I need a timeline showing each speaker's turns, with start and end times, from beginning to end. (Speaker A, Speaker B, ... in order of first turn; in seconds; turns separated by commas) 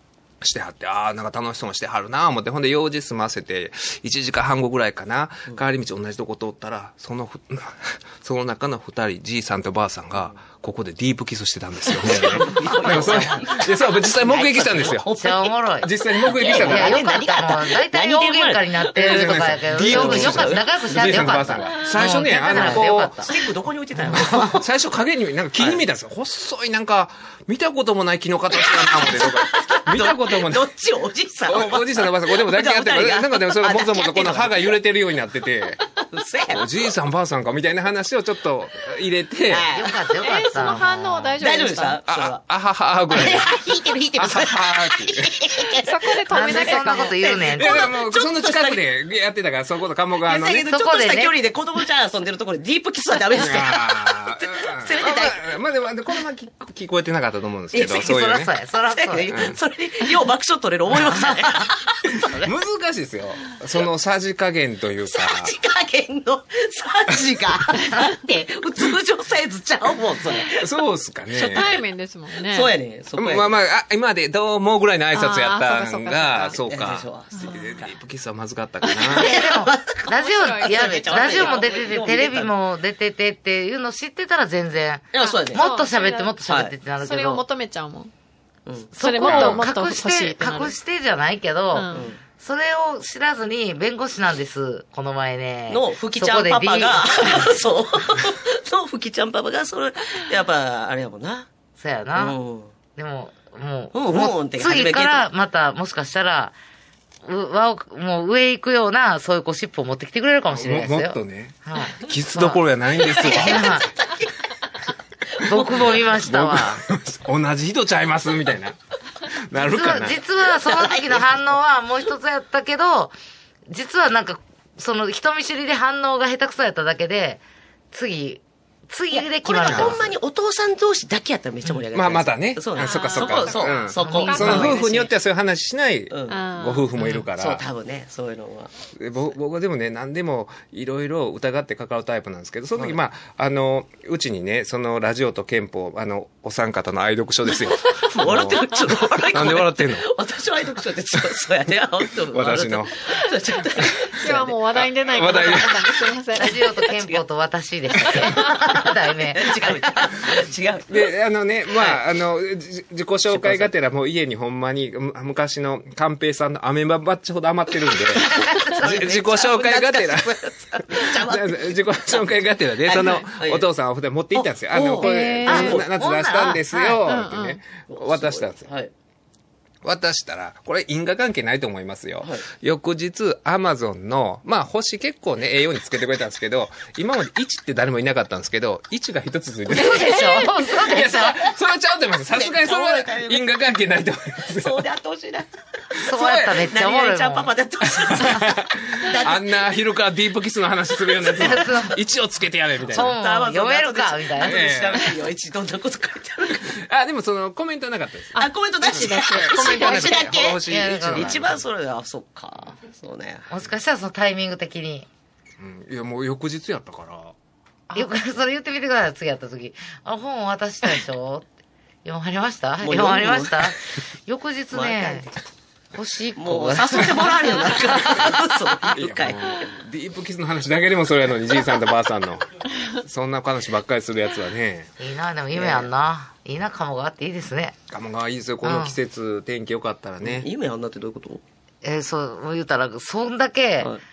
Speaker A: 0.4-15.1, Speaker B: 11.9-15.5, Speaker C: 15.1-23.3, Speaker A: 15.8-17.0, Speaker B: 16.1-21.4, Speaker A: 18.9-23.3, Speaker B: 22.5-24.6, Speaker C: 24.1-24.6, Speaker A: 24.1-30.7, Speaker B: 28.5-34.8, Speaker A: 31.5-35.8, Speaker B: 36.1-36.6, Speaker A: 36.5-39.7, Speaker B: 39.5-40.0, Speaker C: 39.7-41.4, Speaker D: 40.2-42.0, Speaker B: 41.4-42.4, Speaker A: 42.1-43.6, Speaker B: 43.1-48.8, Speaker A: 44.1-45.3, Speaker D: 45.8-47.1, Speaker C: 46.3-47.9, Speaker A: 47.5-50.7, Speaker B: 50.2-55.5, Speaker C: 50.6-51.3, Speaker A: 53.3-58.5, Speaker C: 57.8-59.4, Speaker B: 58.9-62.5, Speaker A: 59.3-59.6, Speaker C: 61.0-61.6, Speaker A: 62.2-65.5, Speaker B: 65.1-70.7, Speaker A: 70.5-71.8, Speaker B: 71.4-71.8, Speaker D: 71.5-72.7, Speaker B: 72.3-73.5, Speaker A: 73.2-79.4, Speaker D: 75.2-76.4, Speaker B: 76.3-77.9, Speaker B: 79.0-82.5, Speaker C: 79.1-87.4, Speaker D: 80.4-81.4, Speaker B: 85.1-85.7, Speaker D: 85.5-86.3, Speaker B: 86.5-86.7, Speaker D: 87.0-88.1, Speaker B: 88.7-89.5, Speaker C: 88.9-97.6, Speaker D: 89.0-90.7, Speaker A: 89.2-89.7, Speaker D: 91.8-92.0, Speaker B: 91.9-92.2, Speaker B: 95.7-101.5, Speaker C: 101.8-102.3, Speaker B: 102.2-102.7, Speaker C: 103.0-106.5, Speaker B: 103.9-105.3, Speaker C: 107.2-112.6, Speaker A: 110.5-113.8, Speaker C: 113.2-113.9, Speaker B: 113.2-114.3, Speaker B: 115.3-116.0, Speaker C: 115.4-116.8, Speaker A: 115.5-120.2, Speaker C: 119.5-123.1, Speaker B: 120.4-121.3, Speaker C: 123.7-130.1, Speaker B: 129.1-135.1, Speaker A: 129.7-130.0, Speaker A: 131.9-137.6, Speaker D: 132.8-134.7, Speaker C: 134.0-134.7, Speaker B: 136.1-138.7, Speaker D: 136.3-136.9, Speaker A: 138.9-150.1, Speaker B: 147.8-154.6, Speaker A: 152.2-153.0, Speaker A: 154.2-155.9, Speaker D: 154.2-156.5, Speaker B: 155.3-155.9, Speaker C: 156.3-160.1, Speaker B: 156.4-157.2, Speaker B: 157.9-161.0, Speaker A: 160.9-178.7, Speaker B: 161.7-162.0, Speaker B: 163.3-163.7, Speaker B: 168.2-172.2, Speaker C: 168.2-169.2, Speaker B: 172.8-173.7, Speaker B: 174.3-175.9, Speaker D: 175.0-175.6, Speaker C: 175.4-177.0, Speaker D: 177.0-177.6, Speaker B: 177.9-178.9, Speaker A: 179.8-194.8, Speaker B: 182.2-182.5, Speaker C: 189.7-191.4, Speaker B: 192.3-193.5, Speaker B: 194.4-199.7, Speaker C: 196.0-197.5, Speaker A: 196.1-196.5, Speaker A: 198.0-203.2, Speaker B: 201.1-201.6, Speaker C: 201.3-202.0, Speaker C: 202.9-204.7, Speaker B: 202.9-206.8, Speaker A: 204.4-205.2, Speaker A: 206.6-211.6, Speaker B: 208.3-213.5, Speaker D: 208.4-210.1, Speaker C: 210.6-211.5, Speaker C: 213.5-215.1, Speaker A: 215.6-217.3, Speaker C: 217.9-221.5, Speaker C: 222.0-225.2, Speaker B: 222.8-223.7, Speaker B: 224.7-225.5, Speaker C: 225.9-228.2, Speaker B: 226.3-229.7, Speaker A: 228.9-234.9, Speaker C: 235.0-237.8, Speaker B: 235.5-235.9, Speaker A: 237.9-240.5, Speaker C: 238.6-239.0, Speaker B: 240.2-241.4, Speaker C: 241.8-243.9